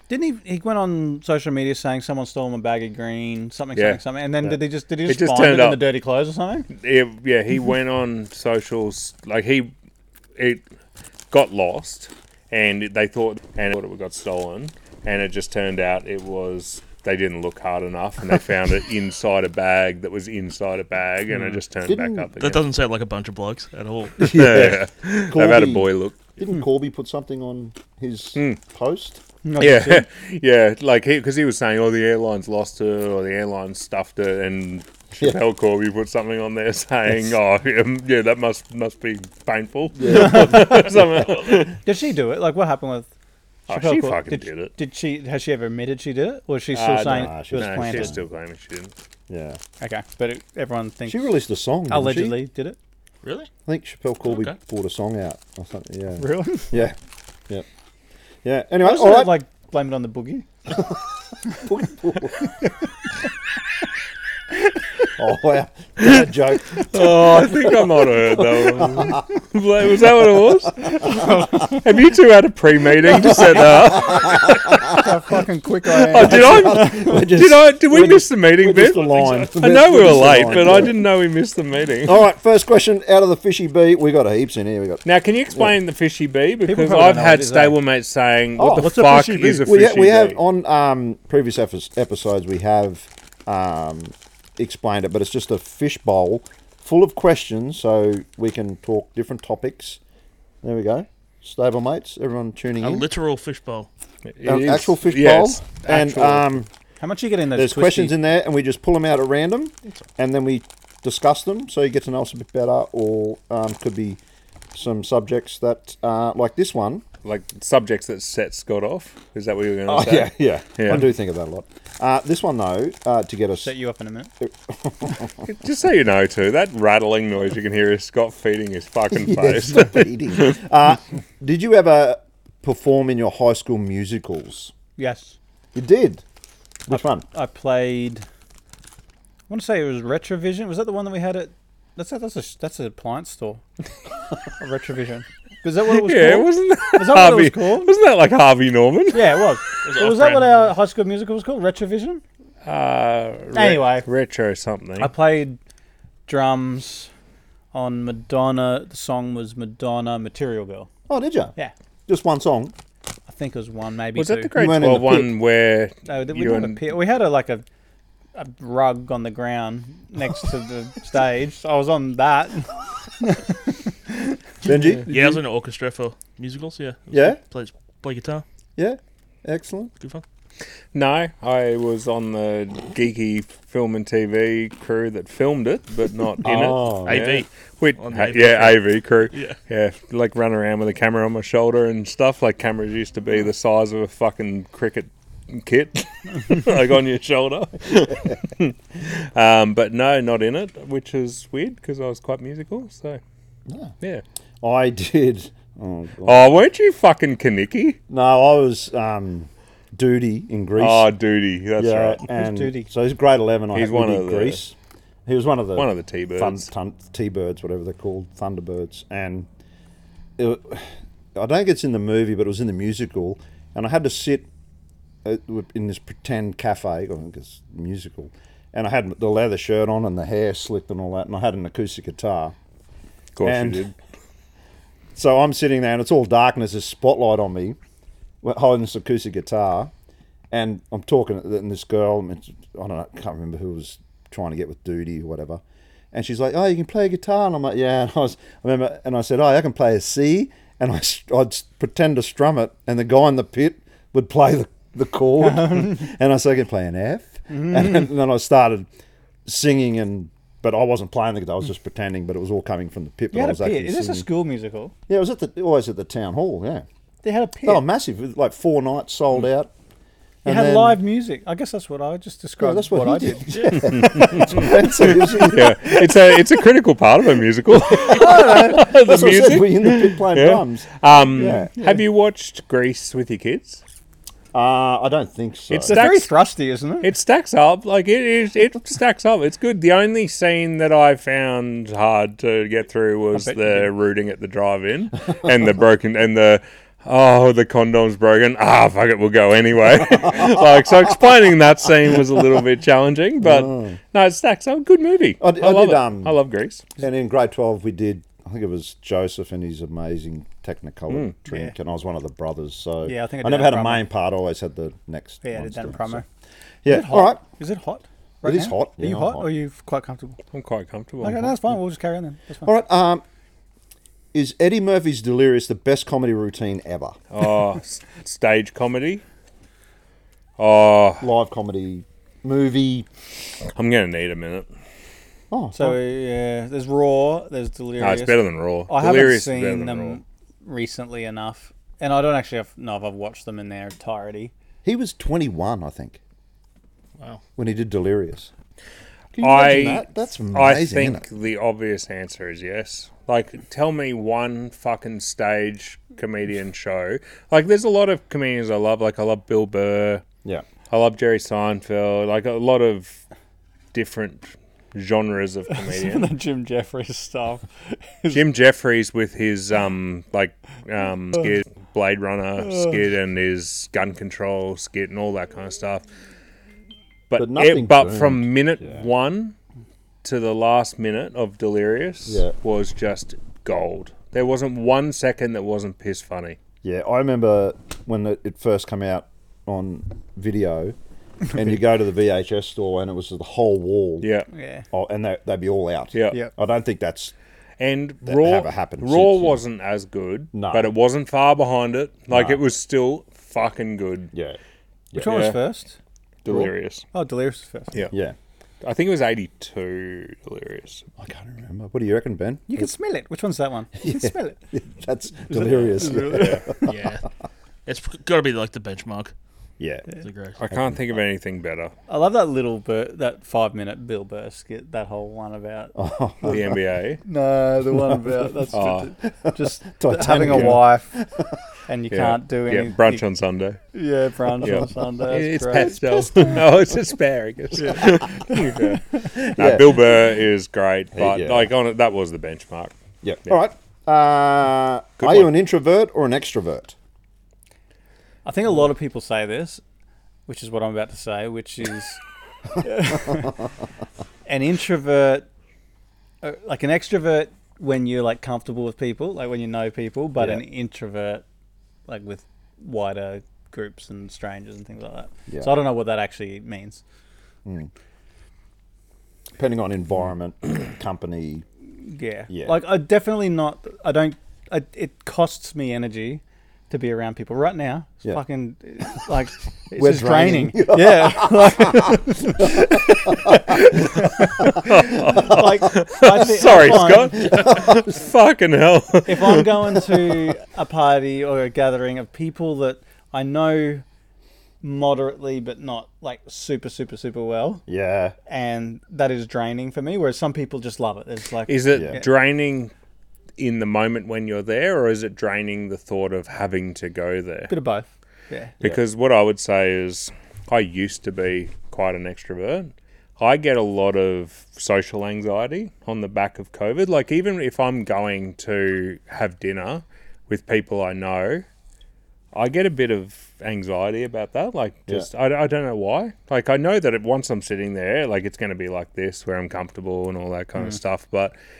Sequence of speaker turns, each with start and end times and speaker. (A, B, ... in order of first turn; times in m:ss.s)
0:00.1-0:06.7 A
0:03.7-0:04.0 B
0:05.0-0:05.9 B
0:06.7-0:09.7 B
0:10.4-0:10.6 B
0:11.3-0:22.6 B
0:21.8-0:22.3 C
0:22.4-0:24.7 D
0:24.2-0:26.2 B
0:24.2-0:29.2 C
0:29.4-0:30.0 A
0:29.6-0:41.8 B
0:40.0-0:41.4 C
0:40.1-0:40.8 A
0:41.8-0:43.1 A
0:43.7-0:44.7 B
0:43.7-0:48.2 A
0:46.7-0:48.9 B
0:47.1-0:48.2 C
0:49.3-0:49.6 C
0:49.8-0:51.3 A
0:51.1-0:52.4 C
0:51.9-0:52.8 A
0:53.2-0:53.5 D
0:53.6-0:57.0 C
0:54.2-0:54.6 D
0:56.2-0:56.7 A
0:58.4-0:59.3 C
0:58.8-1:00.5 A
1:00.7-1:01.0 C
1:01.5-1:02.5 C
1:05.2-1:07.4 C
1:06.8-1:15.0 B
1:08.8-1:09.2 C
1:11.0-1:11.8 A
1:13.2-1:14.9 C
1:14.8-1:17.2 A
1:16.0-1:22.2 B
1:16.1-1:21.0 C
1:22.0-1:25.7 C
1:25.0-1:30.4 B
1:26.6-1:27.8 A
1:28.6-1:28.9 C
1:28.6-1:29.6 A
1:29.6-1:40.0 C
1:40.6-1:43.1 C
1:42.8-1:43.9 D
1:44.3-1:46.4 B
1:44.4-1:46.7 C
1:47.0-1:48.1 A
1:47.6-1:54.2 C
1:54.7-1:57.0 C
1:57.2-2:01.1 B
1:59.8-2:03.7 C
2:03.6-2:04.3 A
2:04.4-2:05.3 C
2:05.4-2:10.5 B
2:09.1-2:14.7 C
2:15.0-2:15.4 A
2:15.7-2:16.2 C
2:16.9-2:17.2 C
2:16.9-2:18.2 A
2:19.5-2:23.6 A
2:24.6-2:27.9 A
2:25.9-2:29.4 B
2:29.1-2:32.2 A
2:29.8-2:30.7 D
2:32.6-2:35.1 B
2:33.5-2:34.0 A
2:35.0-2:35.6 A
2:36.3-2:37.1 A
2:37.7-2:40.9 A
2:41.1-2:41.5 C
2:42.1-2:42.7 C
2:43.3-2:44.5 A
2:44.1-2:46.9 B
2:44.6-2:45.3 C
2:46.1-2:47.6 A
2:48.3-2:54.4 A
2:54.6-2:55.3 C
2:55.1-2:58.4 D
2:57.1-2:57.4 C
2:58.8-2:59.9 C
3:00.9-3:23.2 B
3:06.4-3:07.2 C
3:07.0-3:07.4 D
3:08.0-3:08.8 D
3:23.7-3:23.9 C
3:24.6-3:26.5 C
3:26.2-3:28.0 B
3:28.1-3:31.1 C
3:30.8-3:32.2 B
3:31.8-3:34.7 C
3:32.3-3:32.9 A
3:33.7-3:34.6 B
3:35.2-3:39.5 C
3:35.7-3:36.7 B
3:40.4-3:44.5 C
3:45.2-3:52.5 C
3:53.4-3:53.9 B
3:53.4-3:53.9 C
3:55.1-3:57.8 C
3:58.4-3:59.9 C
4:00.5-4:18.9 C
4:15.4-4:15.9 A
4:17.5-4:18.1 A
4:19.4-4:24.2 C
4:23.3-4:24.9 A
4:25.1-4:26.8 C
4:27.2-4:27.8 A
4:27.6-4:29.7 C
4:30.4-4:31.0 C
4:30.4-4:36.0 A
4:32.6-4:35.8 C
4:33.5-4:33.8 D
4:33.7-4:43.8 B
4:37.9-4:41.7 C
4:38.2-4:38.8 A
4:44.5-4:46.0 C
4:45.7-4:46.3 B
4:45.9-4:47.1 A
4:47.0-5:06.8 B
4:53.3-4:53.9 A
5:03.4-5:04.0 C
5:05.4-5:06.3 C
5:07.0-5:16.2 C
5:11.1-5:11.3 B
5:11.5-5:11.7 A
5:13.0-5:14.0 A
5:15.4-5:16.2 A
5:16.8-5:17.4 C
5:16.8-5:20.4 A
5:18.4-5:19.5 C
5:20.5-5:21.6 B
5:21.2-5:22.7 A
5:22.6-5:23.2 C
5:24.3-5:27.2 C
5:27.3-5:29.2 B
5:30.6-5:31.3 B
5:31.2-5:33.1 C
5:33.7-5:34.7 B
5:35.5-5:36.0 C
5:35.7-5:44.5 A
5:38.0-5:40.2 B
5:44.8-5:46.2 C
5:47.6-5:48.5 C
5:49.3-5:51.2 C
5:49.4-6:00.2 B
6:00.9-6:03.2 B
6:03.9-6:06.3 B
6:05.7-6:08.4 A
6:08.3-6:16.0 B
6:17.3-6:19.5 B
6:17.4-6:19.0 C
6:20.2-6:26.6 B
6:22.3-6:22.5 C
6:26.8-6:31.0 C
6:31.5-6:34.3 C
6:34.2-6:34.5 B
6:34.5-6:34.8 A
6:34.9-6:37.3 C
6:36.1-6:36.4 B
6:37.8-6:44.3 B
6:38.2-6:39.6 C
6:40.5-6:40.9 C
6:42.3-6:42.6 C
6:44.3-6:44.6 C
6:45.1-6:45.4 C
6:45.1-6:46.0 A
6:45.2-6:45.6 B
6:46.4-6:47.0 B
6:47.1-6:47.9 A
6:48.1-6:48.4 C
6:48.8-6:51.0 B
6:51.2-6:52.9 C
6:52.7-6:54.6 A
6:54.0-6:57.0 C
6:55.5-6:56.7 A
6:56.3-6:56.6 B
6:56.8-6:57.3 D
6:57.8-6:59.3 D
6:59.8-7:00.0 C
7:00.2-7:00.6 D
7:00.6-7:01.9 B
7:02.1-7:06.6 A
7:05.9-7:06.8 C
7:06.5-7:07.2 B
7:07.2-7:11.1 A
7:08.7-7:09.1 B
7:09.4-7:11.6 C
7:10.5-7:10.8 B
7:11.9-7:13.2 A
7:12.1-7:13.8 B
7:13.9-7:16.6 A
7:14.6-7:22.9 B
7:17.8-7:19.2 A
7:19.4-7:20.0 C
7:21.1-7:21.7 C
7:23.2-7:26.9 C
7:25.2-7:25.5 B
7:28.4-7:29.8 A
7:30.5-7:32.2 A
7:32.8-7:33.5 A
7:34.5-7:35.4 A
7:36.4-7:41.4 A
7:40.4-7:40.6 C
7:42.1-7:47.0 A
7:45.5-7:45.7 C
7:47.6-7:47.9 C
7:49.6-7:51.6 C
7:52.0-8:07.6 A
7:52.5-7:52.8 C
7:59.9-8:03.8 C
8:04.8-8:10.0 B
8:05.3-8:05.6 C
8:09.2-8:14.0 A
8:14.8-8:17.8 A
8:17.9-8:18.3 C
8:18.5-8:22.3 A
8:21.7-8:22.9 B
8:23.6-8:27.7 B
8:27.7-8:28.7 A
8:28.8-8:41.6 B
8:42.5-8:51.5 B